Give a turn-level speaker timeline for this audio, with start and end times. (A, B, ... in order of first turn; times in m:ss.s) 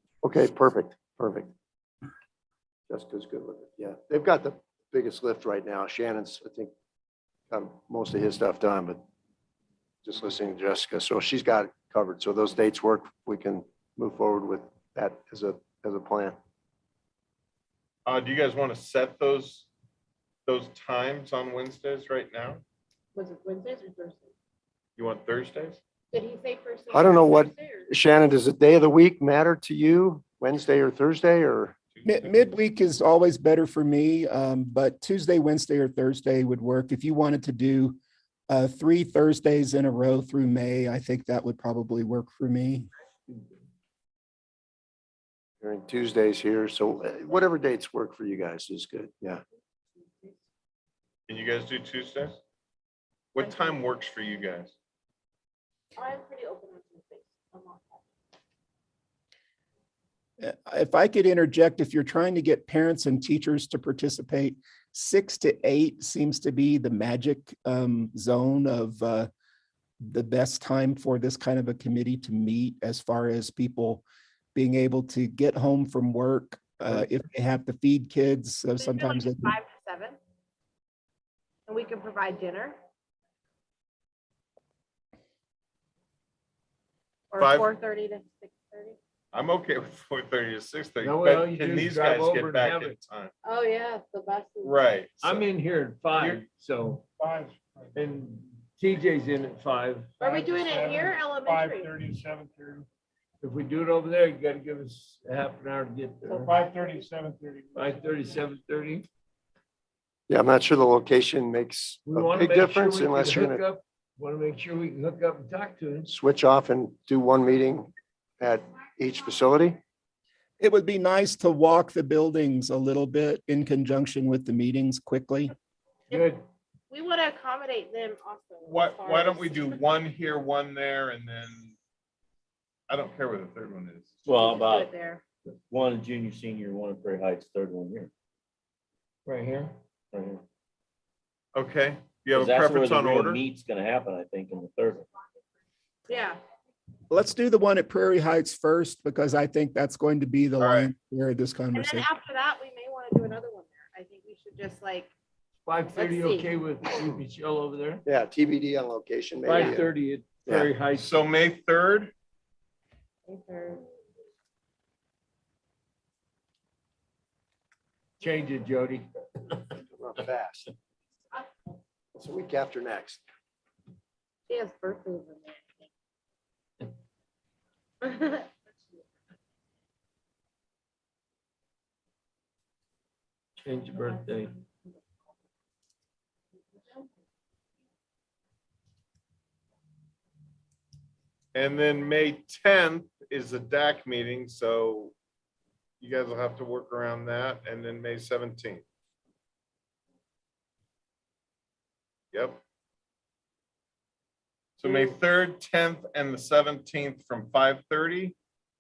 0:00.2-0:01.5 A
0:02.9-0:06.7 A
0:07.5-0:09.0 A
0:10.0-0:16.4 A
0:18.0-0:19.7 B
0:20.4-0:22.6 B
0:23.1-0:24.3 C
0:25.0-0:25.8 B
0:26.1-0:27.9 C
0:26.9-0:31.8 A
0:31.9-0:32.5 B
0:32.0-0:38.0 D
0:38.5-0:42.9 D
0:45.6-0:49.4 A
0:51.3-0:52.4 B
0:53.3-0:54.7 B
0:53.4-0:53.7 C
0:56.0-0:58.1 C
1:00.4-1:09.3 D
1:10.0-1:14.0 D
1:14.5-1:19.5 D
1:18.8-1:20.2 C
1:21.7-1:22.8 C
1:27.3-1:29.0 C
1:27.4-1:27.7 B
1:29.3-1:33.3 B
1:31.0-1:33.0 E
1:33.4-1:34.8 C
1:34.6-1:35.5 B
1:35.2-1:37.0 E
1:36.2-1:36.4 B
1:37.2-1:38.0 F
1:38.0-1:40.2 E
1:40.2-1:41.9 C
1:40.2-1:42.9 F
1:43.4-1:46.6 E
1:46.2-1:47.8 F
1:47.7-1:49.1 E
1:50.3-1:53.6 A
1:52.0-1:56.1 E
1:56.0-1:59.8 A
2:00.6-2:05.5 D
2:06.1-2:06.4 E
2:06.9-2:09.9 C
2:08.6-2:11.8 B
2:12.9-2:14.1 B
2:14.2-2:14.9 G
2:14.3-2:15.2 C
2:15.7-2:18.1 G
2:19.2-2:19.8 E
2:20.1-2:20.4 G
2:21.5-2:23.4 B
2:22.3-2:25.1 G
2:26.1-2:26.4 C
2:27.1-2:32.1 D
2:30.6-2:30.9 B
2:31.7-2:35.1 C
2:35.6-2:38.0 E
2:35.9-2:37.1 C
2:38.0-2:39.9 A
2:39.4-2:41.2 E
2:39.5-2:39.8 C
2:40.4-2:40.7 A
2:40.9-2:42.1 B
2:43.2-2:43.8 C
2:48.2-2:49.1 E
2:49.9-2:50.7 A
2:52.1-2:53.2 A
2:54.5-2:55.9 C
2:58.0-2:58.5 C
3:03.6-3:04.5 E
3:11.5-3:15.1 B
3:16.0-3:18.8 B
3:22.3-3:22.6 B
3:24.8-3:28.4 B
3:24.8-3:25.2 C